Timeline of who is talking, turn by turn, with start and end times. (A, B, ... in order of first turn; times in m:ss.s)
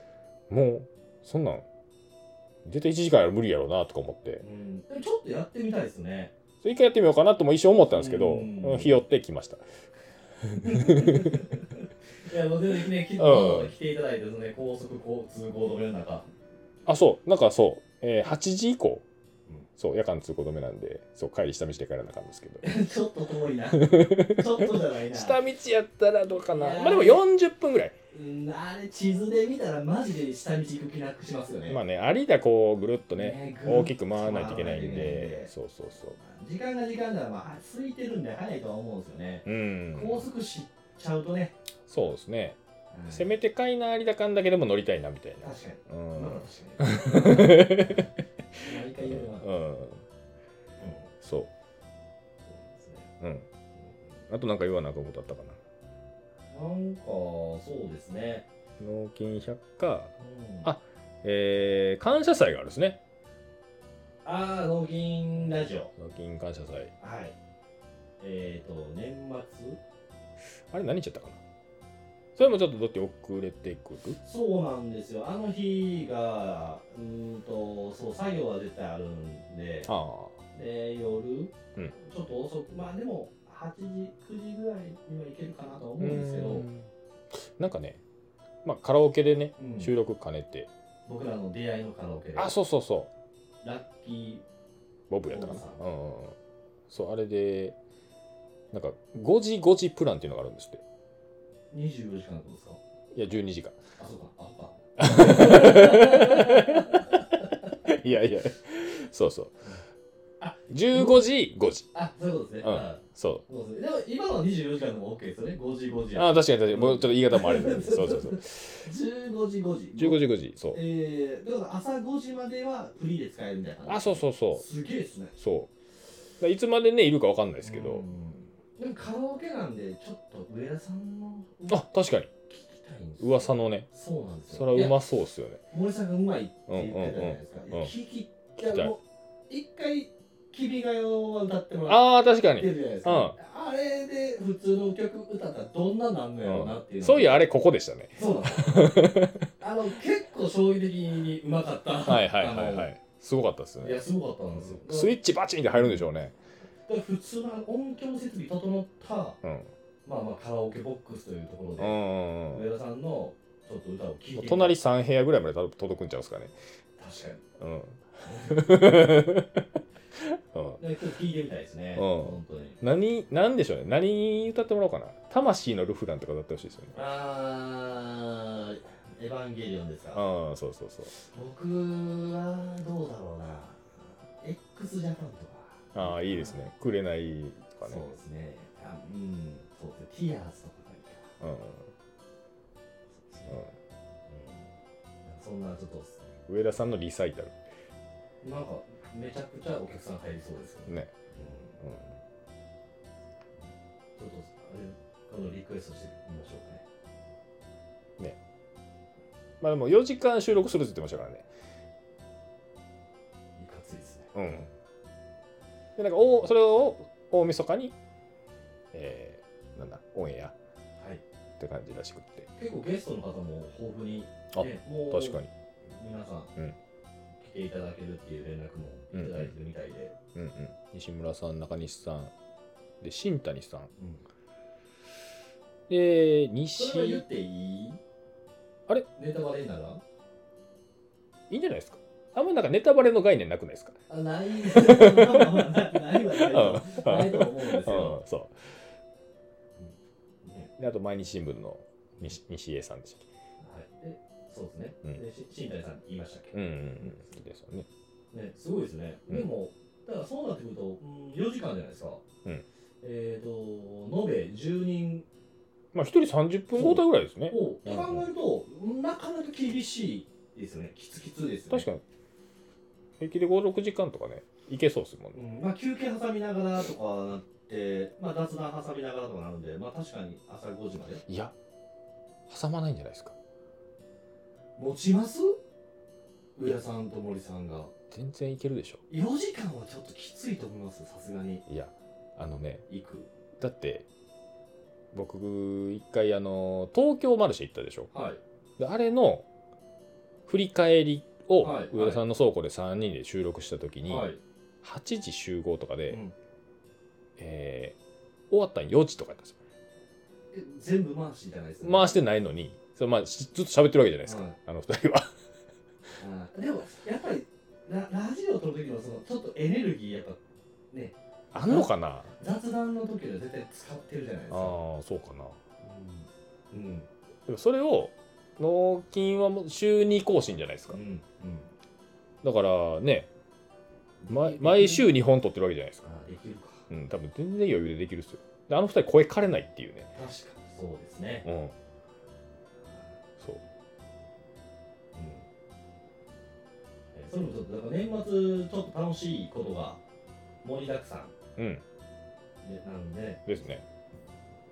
0:00.5-0:01.6 A
0:02.6-0:04.4 A
0:04.4-0:06.3 B
0:06.6-0:09.6 A
0:07.9-0:09.0 B
0:10.4-0:11.5 A
0:10.6-0:16.3 B
0:13.2-0:13.7 A
0:16.9-0:19.0 A
0:19.8-0:22.6 A
0:22.6-0:25.4 B
0:23.8-0:28.0 A
0:26.5-0:27.2 B
0:28.1-0:31.8 B
0:31.7-0:36.2 A
0:33.2-0:35.5 B
0:36.2-0:41.6 B
0:39.4-0:40.2 A
0:41.9-0:42.6 A
0:42.9-0:43.3 B
0:43.1-0:50.0 A
0:45.4-0:49.5 B
0:50.8-0:51.1 B
0:51.2-0:51.5 A
0:52.4-0:53.1 B
0:53.2-0:53.5 A
0:54.3-0:55.6 A
0:56.5-0:58.5 B
0:58.8-1:00.1 A
1:00.2-1:00.7 B
1:00.6-1:03.0 A
1:04.2-1:05.9 B
1:06.0-1:06.9 A
1:07.0-1:07.4 B
1:08.2-1:09.8 B
1:10.7-1:11.4 A
1:12.4-1:14.2 A
1:14.2-1:19.9 B
1:19.9-1:20.4 A
1:20.5-1:26.7 B
1:26.0-1:28.0 A
1:28.6-1:30.7 A
1:29.6-1:29.9 B
1:31.1-1:32.5 B
1:32.4-1:33.1 A
1:33.6-1:34.4 B
1:35.1-1:36.4 A
1:35.3-1:35.8 B
1:36.9-1:37.8 A
1:38.7-1:40.8 A
1:41.7-1:42.8 B
1:43.1-1:43.8 A
1:44.0-1:47.1 B
1:45.0-1:49.6 A
1:50.4-1:51.2 B
1:50.7-1:51.9 A
1:51.9-2:05.4 B
1:52.6-1:53.4 A
1:56.2-1:58.9 A
2:00.0-2:00.8 A
2:03.9-2:04.6 A
2:05.4-2:05.7 A
2:06.4-2:08.0 A
2:07.6-2:11.9 B
2:11.7-2:12.3 A
2:12.5-2:15.0 B
2:13.2-2:13.9 A
2:14.5-2:15.6 A
2:15.7-2:27.5 B
2:16.7-2:17.9 A
2:18.6-2:18.9 A
2:21.9-2:23.4 A
2:26.4-2:29.5 A
2:28.2-2:32.9 B
2:32.1-2:34.0 A
2:33.8-2:35.1 B
2:34.6-2:36.4 A
2:35.8-2:36.1 B
2:36.9-2:39.4 B
2:39.4-2:39.7 A
2:40.0-2:44.8 B
2:41.8-2:42.6 A
2:44.4-2:46.5 A
2:47.0-2:47.4 B
2:47.6-2:50.8 A
2:48.3-2:48.6 B
2:50.8-2:52.8 B
2:52.0-2:56.9 A
2:56.9-3:00.2 B
3:00.1-3:01.1 A
3:01.1-3:06.6 B
3:05.9-3:08.1 A
3:07.8-3:11.4 B
3:11.4-3:11.9 A
3:13.2-3:13.7 B
3:14.3-3:14.7 B
3:15.2-3:16.3 B
3:16.5-3:17.6 A
3:18.4-3:21.8 B
3:24.2-3:26.8 B
3:29.6-3:31.5 A
3:33.6-3:34.3 B
3:34.3-3:34.7 A
3:36.0-3:38.0 A
3:38.9-3:40.6 A
3:41.6-3:42.5 A
3:42.6-3:45.4 B
3:44.5-3:45.5 A
3:46.0-3:46.5 B
3:47.4-3:50.1 B
3:49.1-3:49.5 A
3:50.4-3:52.3 A
3:53.0-3:53.9 A
3:54.0-3:54.2 B
3:55.9-3:57.2 A
3:56.8-3:58.0 B
3:59.2-4:00.0 B
4:01.5-4:04.0 A
4:04.1-4:08.2 B
4:04.6-4:08.8 A
4:10.4-4:10.7 B
4:10.8-4:13.3 A
4:13.6-4:17.4 B
4:16.5-4:17.9 A
4:18.3-4:22.2 B
4:23.0-4:25.3 B
4:25.9-4:28.2 A
4:26.8-4:31.9 B
4:31.7-4:32.0 A
4:33.2-4:35.4 A
4:35.3-4:41.2 B
4:41.3-4:41.6 A
4:42.5-4:43.4 A
4:44.8-4:45.6 B
4:46.6-4:47.9 B
4:48.1-4:49.0 A
4:49.1-4:51.6 B
4:51.7-4:52.8 A
4:52.9-4:53.3 B
4:53.6-4:54.1 A
4:55.1-4:58.1 A
4:58.1-4:58.4 B
4:58.8-4:59.5 A
5:00.5-5:04.3 A
5:01.6-5:02.2 B
5:04.1-5:04.4 B
5:04.8-5:06.2 A
5:06.1-5:06.3 B
5:07.4-5:08.0 A
5:08.5-5:09.6 A
5:10.5-5:12.2 B
5:11.8-5:15.3 A
5:14.2-5:14.6 B
5:16.2-5:20.4 B
5:20.9-5:24.8 B
5:21.5-5:22.3 A
5:24.5-5:25.6 A
5:25.8-5:27.1 B
5:27.5-5:31.0 A
5:30.9-5:31.7 B
5:32.4-5:33.3 A
5:34.2-5:35.1 B
5:34.3-5:36.1 A
5:36.0-5:36.9 B
5:36.9-5:40.1 A
5:40.2-5:41.5 B
5:41.4-5:41.7 A
5:45.1-5:45.4 B
5:47.1-5:50.0 B
5:50.6-5:51.3 B
5:51.6-5:51.8 A
5:52.6-5:53.5 B
5:53.5-5:53.8 A